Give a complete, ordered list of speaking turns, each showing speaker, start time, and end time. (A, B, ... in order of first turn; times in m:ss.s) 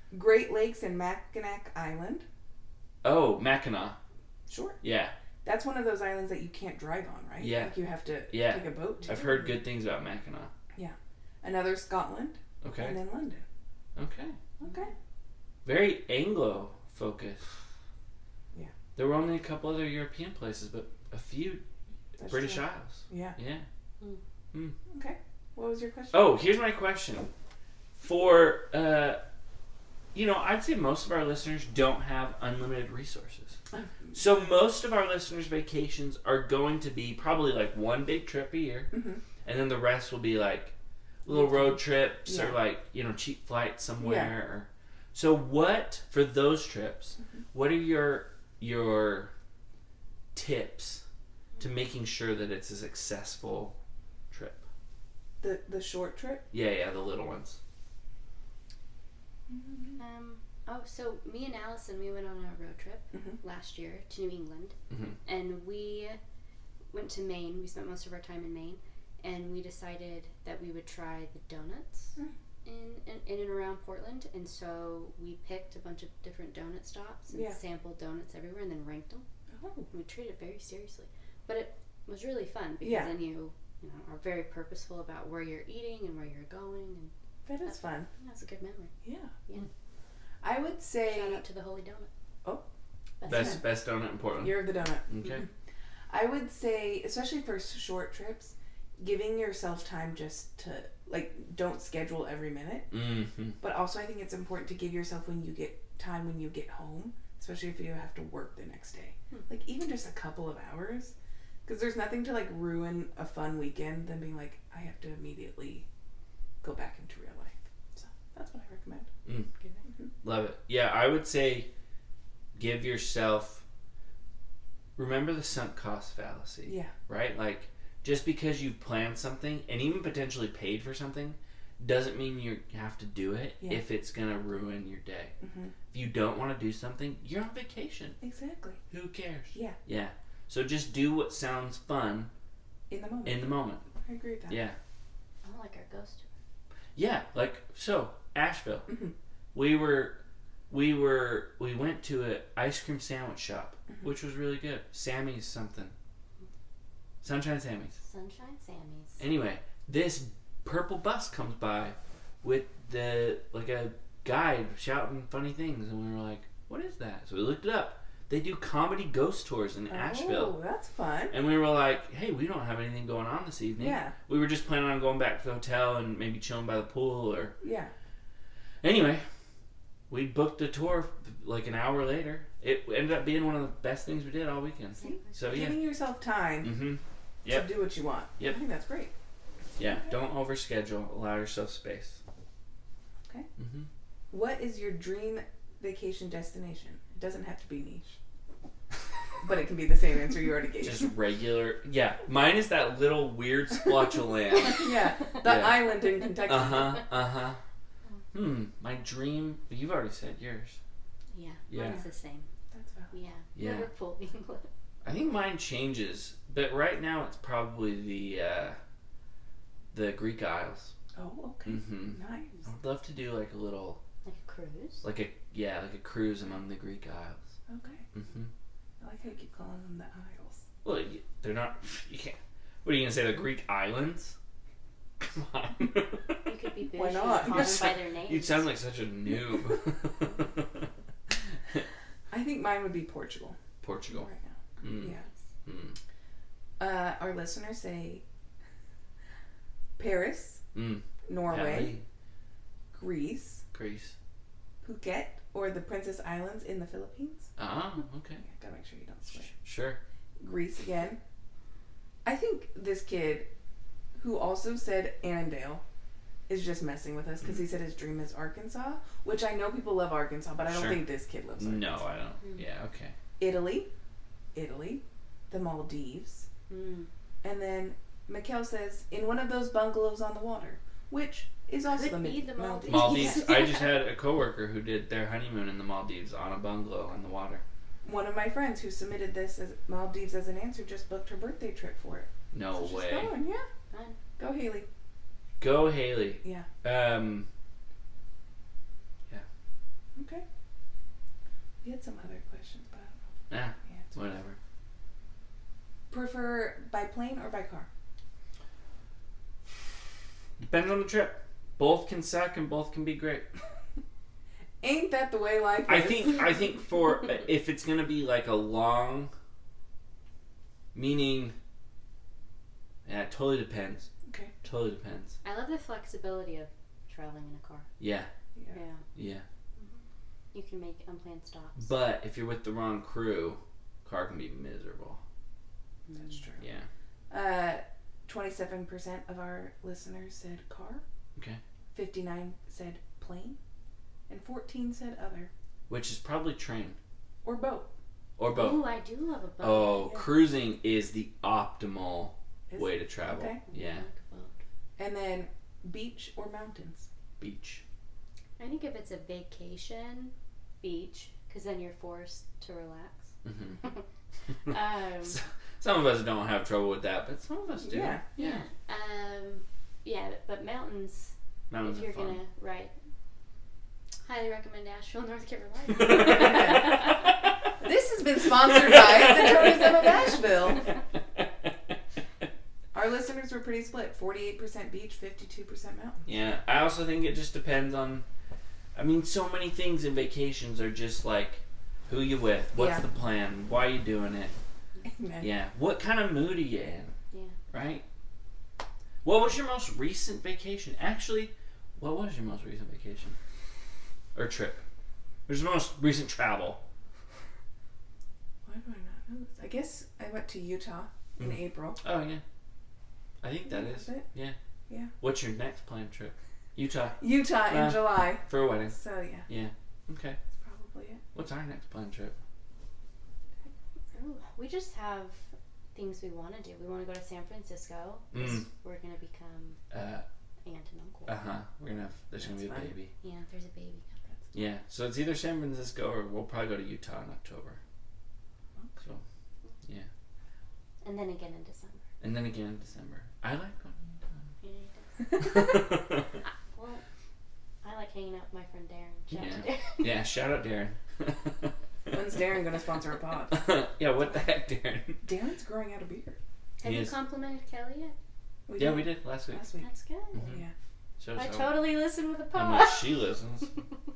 0:00.1-0:02.2 A
0:03.0-0:04.0 B
0:04.5-0:04.8 A
0:04.8-0:05.1 B
0:05.4-0:09.2 A
0:07.4-0:07.8 B
0:08.3-0:10.5 B
0:09.1-0:09.4 C
0:10.8-0:13.4 A
0:12.6-0:13.0 B
0:14.0-0:14.4 B
0:14.6-0:14.9 A
0:14.6-0:14.9 C
0:15.6-0:17.5 B
0:19.0-0:21.6 B
0:22.2-0:23.7 B
0:22.2-0:23.4 A
0:24.9-0:26.3 A
0:26.1-0:27.3 B
0:28.0-0:29.2 B
0:30.1-0:33.6 B
0:33.7-0:34.2 A
0:34.1-0:38.9 B
0:38.9-0:39.2 A
0:39.4-0:40.7 B
0:41.2-0:49.3 B
0:42.2-0:42.6 A
0:44.0-0:44.3 A
0:50.4-0:51.0 B
0:51.6-0:53.8 B
0:54.3-0:54.6 B
0:55.4-0:56.5 A
0:56.5-0:57.6 B
0:59.5-1:00.0 A
1:00.0-1:06.2 C
1:03.1-1:03.4 A
1:04.9-1:05.2 B
1:06.9-1:19.3 C
1:17.3-1:17.6 A
1:19.5-1:19.9 A
1:19.9-1:27.1 C
1:22.8-1:23.1 A
1:27.5-1:28.1 A
1:27.6-1:28.9 C
1:29.0-1:29.3 A
1:30.4-1:31.4 A
1:31.1-1:32.1 C
1:33.2-1:33.6 C
1:33.2-1:33.6 A
1:33.3-1:35.4 B
1:34.4-1:35.4 A
1:36.1-1:42.9 A
1:42.9-1:43.6 B
1:43.6-1:51.1 A
1:51.6-1:55.9 A
1:56.6-1:59.1 A
2:00.2-2:01.7 B
2:02.6-2:03.6 B
2:05.0-2:15.3 B
2:06.7-2:06.9 A
2:15.4-2:15.8 A
2:15.9-2:18.2 B
2:18.2-2:18.8 A
2:18.9-2:22.3 B
2:22.9-2:24.6 A
2:23.2-2:23.9 B
2:24.5-2:24.8 B
2:25.4-2:26.3 C
2:27.0-2:28.9 B
2:28.9-2:29.1 A
2:29.5-2:30.2 B
2:30.7-2:35.9 B
2:37.2-2:38.0 B
2:38.0-2:39.2 C
2:39.2-2:50.6 B
2:49.9-2:51.4 A
2:51.3-2:57.6 B
2:53.8-2:54.2 A
2:57.6-2:57.9 A
2:58.8-2:59.2 B
3:00.1-3:05.8 B
3:05.0-3:05.4 C
3:05.0-3:06.7 A
3:06.6-3:07.8 B
3:07.5-3:09.1 A
3:09.8-3:12.2 B
3:13.6-3:13.9 B
3:14.3-3:18.2 A
3:19.4-3:21.1 A
3:20.8-3:27.6 B
3:24.7-3:27.0 A
3:28.3-3:30.8 B
3:31.3-3:32.5 C
3:31.7-3:32.0 B
3:32.7-3:33.1 A
3:33.1-3:34.7 C
3:33.6-3:33.9 B
3:35.0-3:38.8 B
3:39.9-3:40.9 B
3:41.1-3:42.5 A
3:41.7-3:44.0 B
3:44.2-3:45.1 C
3:45.0-3:47.5 B
3:47.7-3:48.1 A
3:48.2-3:48.5 B
3:49.0-3:50.6 A
3:50.8-3:54.4 B
3:55.2-3:56.4 B
3:56.4-3:58.7 C
3:57.0-3:57.8 A
3:57.4-4:00.9 B
4:02.3-4:03.6 A
4:03.8-4:04.3 B
4:04.1-4:05.2 A
4:04.8-4:06.0 B
4:06.8-4:08.2 A
4:10.0-4:10.6 A
4:10.7-4:12.0 B
4:11.3-4:12.0 A
4:12.9-4:13.6 A
4:13.7-4:14.2 B
4:14.8-4:17.5 A
4:17.6-4:18.4 B
4:18.4-4:19.5 A
4:19.5-4:20.0 B
4:20.4-4:21.2 A
4:22.2-4:23.5 A
4:24.2-4:25.8 A
4:26.5-4:32.0 A
4:30.7-4:31.0 B
4:31.6-4:33.2 B
4:33.4-4:33.9 A
4:34.5-4:36.5 A
4:36.7-4:37.1 C
4:37.4-4:43.7 A
4:41.9-4:43.9 C
4:42.9-4:47.6 B
4:48.0-4:53.7 A
4:52.5-4:53.3 B
4:53.9-4:54.2 C
4:54.4-4:54.9 A
4:55.6-4:57.5 B
5:00.2-5:00.4 A
5:01.8-5:03.2 A
5:03.5-5:04.6 B
5:03.9-5:04.1 A
5:06.1-5:07.9 A
5:10.6-5:13.5 B
5:14.8-5:16.5 A
5:15.9-5:19.3 B
5:20.9-5:21.6 B
5:23.1-5:24.1 B
5:24.3-5:24.5 A
5:24.6-5:25.4 B
5:25.4-5:27.9 C
5:28.0-5:28.3 B
5:28.7-5:29.0 C
5:29.1-5:29.4 B
5:29.8-5:31.9 C
5:31.8-5:35.2 B
5:36.1-5:36.5 C
5:36.2-5:36.6 A
5:36.6-5:36.9 B
5:37.3-5:41.0 A
5:41.9-5:43.6 A
5:44.3-5:45.5 A
5:45.9-5:47.0 B
5:47.4-5:47.9 A
5:48.4-5:48.8 B
5:48.5-5:50.1 C
5:49.6-5:54.0 B
5:50.0-5:50.3 A
5:52.7-5:53.6 A
5:53.7-5:54.6 C
5:55.0-5:57.1 A
5:57.4-5:57.8 B
5:58.6-6:03.3 C
6:03.4-6:03.8 B
6:04.7-6:05.4 C
6:05.2-6:08.6 B
6:07.8-6:08.2 A
6:08.4-6:12.9 C
6:11.7-6:12.4 B
6:14.3-6:17.3 C
6:16.0-6:16.8 B
6:16.0-6:17.1 A
6:17.8-6:20.8 A
6:19.0-6:20.1 B
6:22.9-6:26.3 A
6:26.3-6:28.3 B
6:29.0-6:34.5 B
6:32.8-6:33.0 A
6:35.0-6:35.5 A
6:35.4-6:37.1 B
6:37.7-6:38.0 B
6:39.2-6:43.4 B
6:44.4-6:44.8 B
6:45.5-6:46.8 B
6:48.6-6:52.0 A
6:51.4-6:52.4 B
6:53.4-6:54.6 B
6:53.7-6:54.2 A
6:55.2-6:59.0 B
6:57.2-6:59.5 A
6:59.5-7:00.4 B
7:00.6-7:01.2 A
7:01.3-7:02.4 B
7:04.1-7:09.8 C
7:08.3-7:08.7 B
7:09.9-7:10.2 B
7:10.6-7:11.3 C
7:11.3-7:13.1 B
7:12.4-7:12.9 A
7:13.2-7:14.3 C
7:14.5-7:17.8 B
7:18.8-7:19.0 A
7:21.0-7:22.0 C
7:22.2-7:24.1 B
7:24.6-7:25.5 C
7:25.3-7:26.3 B
7:26.4-7:27.0 C
7:27.8-7:30.2 C
7:29.3-7:31.7 B
7:32.1-7:33.6 A
7:33.5-7:35.2 B
7:35.2-7:36.4 A
7:36.8-7:38.2 C
7:36.8-7:37.1 B
7:38.7-7:39.9 A
7:38.8-7:39.7 B
7:39.8-7:40.4 C
7:40.4-7:40.6 B
7:40.4-7:40.7 A
7:41.2-7:41.8 B
7:41.4-7:43.2 C
7:42.5-7:43.7 B